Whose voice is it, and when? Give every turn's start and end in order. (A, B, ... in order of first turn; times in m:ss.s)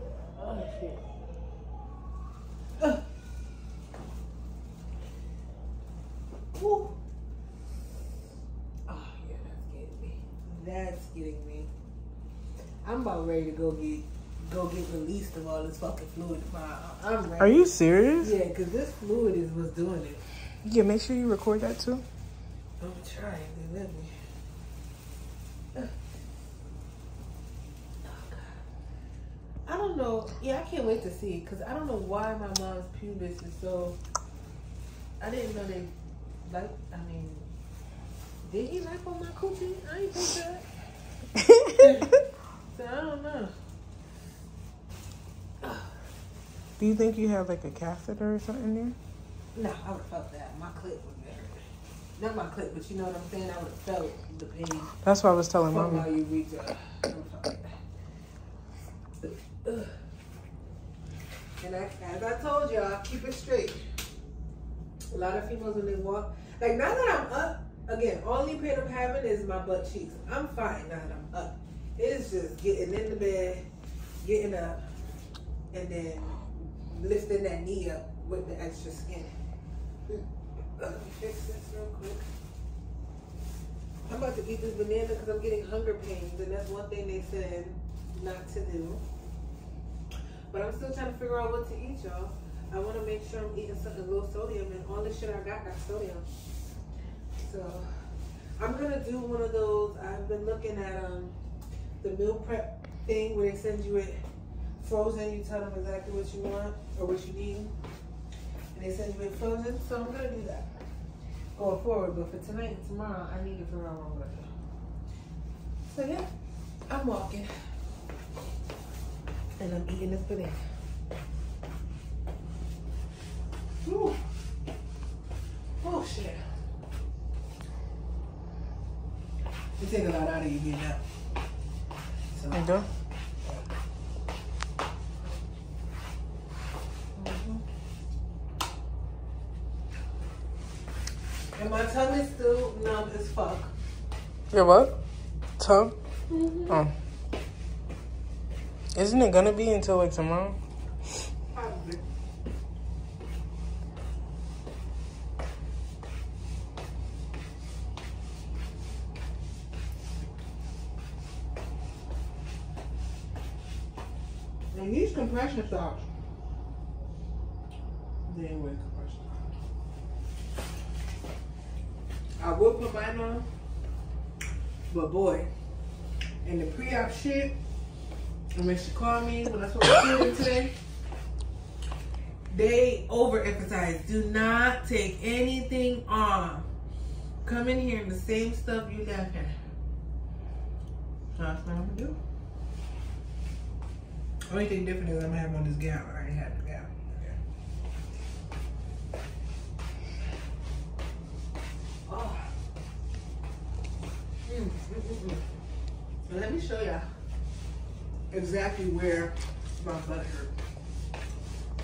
0:00.4-0:01.0 A
0:02.8-0:03.0 A
0:06.5-0:07.0 A
0:08.9-0:11.7 A
0:12.8-0:17.6 A
0:17.4-0:18.3 B
0:18.2-0:20.2 A
0:20.6-0:22.0 B
0:22.8-0:24.1 A
0:28.0-0:28.6 A
0:29.6-0:34.0 A
0:35.2-0:35.9 A
0:36.4-0:37.5 A
0:38.4-0:40.6 A
0:41.4-0:42.1 B
0:41.8-0:42.2 A
0:42.7-0:43.5 A
0:45.6-0:45.9 A
0:46.8-0:49.0 B
0:49.5-0:51.6 A
0:52.2-0:54.9 A
0:55.0-0:56.1 B
0:55.7-0:57.7 A
0:59.2-0:59.9 A
1:01.6-1:03.8 A
1:05.1-1:13.7 A
1:14.2-1:14.8 A
1:15.7-1:19.3 A
1:20.8-1:22.2 A
1:24.1-1:29.0 A
1:30.5-1:36.3 A
1:37.4-1:37.9 A
1:38.6-1:41.3 A
1:42.0-1:44.2 A
1:44.8-1:47.7 A
1:48.7-1:50.7 A
1:51.6-1:54.5 A
1:55.9-1:56.3 A
1:56.9-1:57.5 A
1:59.6-2:00.6 A
2:03.8-2:04.2 A
2:05.8-2:06.4 A
2:09.8-2:11.0 A
2:12.3-2:12.8 A
2:12.5-2:12.9 B
2:17.1-2:17.6 A
2:21.6-2:23.7 A
2:24.5-2:25.0 B
2:25.6-2:26.0 B
2:26.3-2:26.8 A
2:26.7-2:26.9 B
2:28.9-2:30.6 B
2:31.5-2:32.0 A
2:44.7-2:46.1 A
2:48.2-2:49.5 A
2:52.4-2:53.4 A
2:54.9-2:55.5 A
2:56.4-2:57.5 A
2:58.5-3:00.7 A
3:02.5-3:06.7 A
3:07.4-3:09.6 A
3:11.3-3:12.2 A
3:14.5-3:17.4 A
3:22.0-3:22.5 A
3:24.5-3:25.4 A
3:26.3-3:27.1 A
3:28.3-3:30.5 A